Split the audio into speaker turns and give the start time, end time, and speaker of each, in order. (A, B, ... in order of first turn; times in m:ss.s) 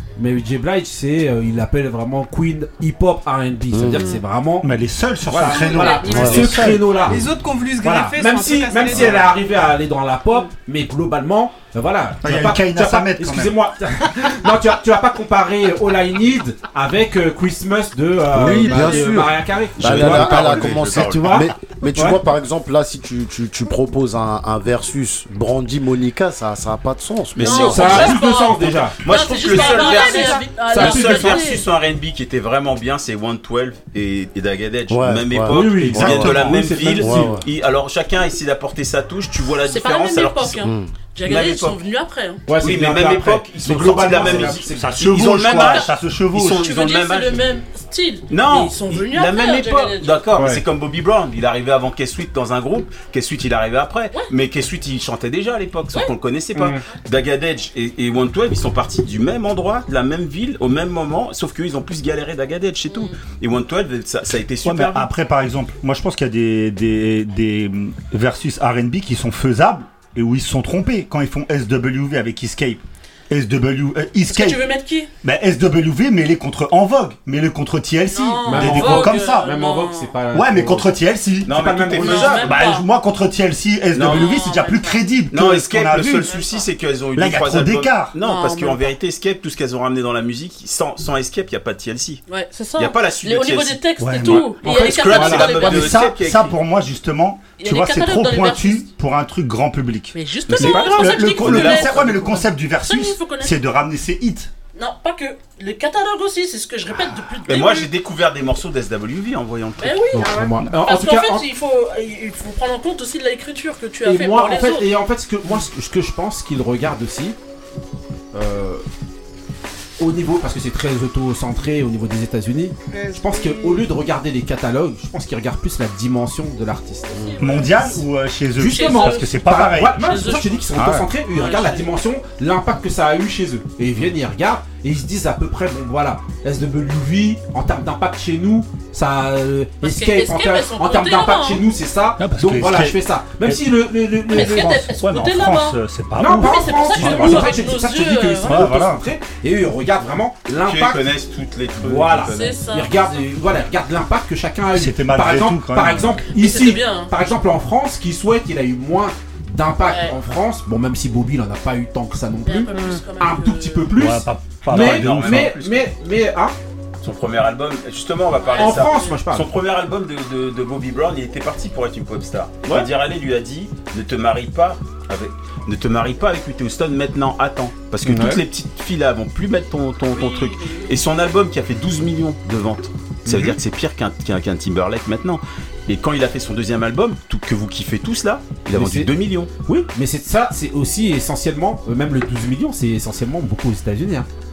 0:00.2-0:04.7 A
0:03.7-0:04.1 B
0:04.6-0:07.2 C
0:05.2-0:07.2 A
0:05.6-0:06.4 D
0:05.7-0:06.2 E
0:06.1-0:06.5 B
0:07.0-0:09.3 E
0:07.8-0:22.2 A
0:08.9-0:09.2 C
0:12.2-0:13.6 C
0:18.3-0:28.0 B
0:19.8-0:21.4 F
0:27.3-0:40.7 F
0:27.4-0:31.7 D
0:27.4-0:29.0 A
0:29.5-0:30.5 E
0:30.7-0:31.4 A
0:34.9-0:37.5 B
0:35.5-0:37.4 A
0:39.6-0:42.4 D
0:40.6-0:40.9 B
0:41.2-0:41.8 F
0:42.5-0:45.4 A
0:42.6-0:47.4 F
0:44.0-0:46.7 C
0:45.2-0:45.9 D
0:46.5-0:50.3 D
0:48.3-1:05.1 F
0:50.4-0:50.6 A
1:02.9-1:03.1 D
1:04.6-1:14.6 C
1:14.3-1:15.1 D
1:15.2-1:19.5 C
1:18.1-1:20.1 D
1:18.4-1:20.9 A
1:20.3-1:26.4 C
1:21.4-1:22.7 F
1:21.5-1:22.5 A
1:22.0-1:22.9 D
1:23.9-1:24.5 F
1:24.0-1:25.2 D
1:25.3-1:32.2 F
1:26.1-1:26.7 D
1:27.2-1:28.1 C
1:28.2-1:28.9 D
1:32.3-1:36.1 D
1:32.8-1:36.6 F
1:34.0-1:44.5 C
1:37.6-1:38.9 D
1:40.1-1:43.6 D
1:40.5-1:42.4 F
1:44.7-1:47.9 D
1:47.4-1:50.0 F
1:49.8-1:54.9 D
1:50.1-1:51.4 A
1:54.0-1:57.4 A
1:58.3-1:58.8 A
2:00.0-2:07.3 A
2:02.9-2:03.9 E
2:07.1-2:08.0 D
2:07.1-2:07.4 B
2:07.4-2:10.2 C
2:08.6-2:24.7 A
2:08.6-2:11.9 D
2:19.8-2:21.6 D
2:22.2-2:23.6 C
2:24.3-2:27.6 C
2:24.3-2:25.8 D
2:26.2-2:31.1 A
2:26.3-2:28.7 D
2:28.4-2:29.0 C
2:30.6-2:32.6 F
2:31.8-2:46.5 A
2:32.2-2:33.1 D
2:34.7-2:36.2 C
2:36.3-2:37.1 D
2:39.8-2:40.1 D
2:42.4-2:44.1 D
2:42.7-2:43.0 E
2:43.9-2:45.4 C
2:44.7-2:45.9 F
2:47.0-3:09.5 F
2:48.3-2:49.2 D
2:48.6-2:49.5 A
2:58.0-2:58.4 A
3:00.1-3:00.9 D
3:03.2-3:03.6 A
3:08.7-3:09.1 A
3:09.6-3:14.3 A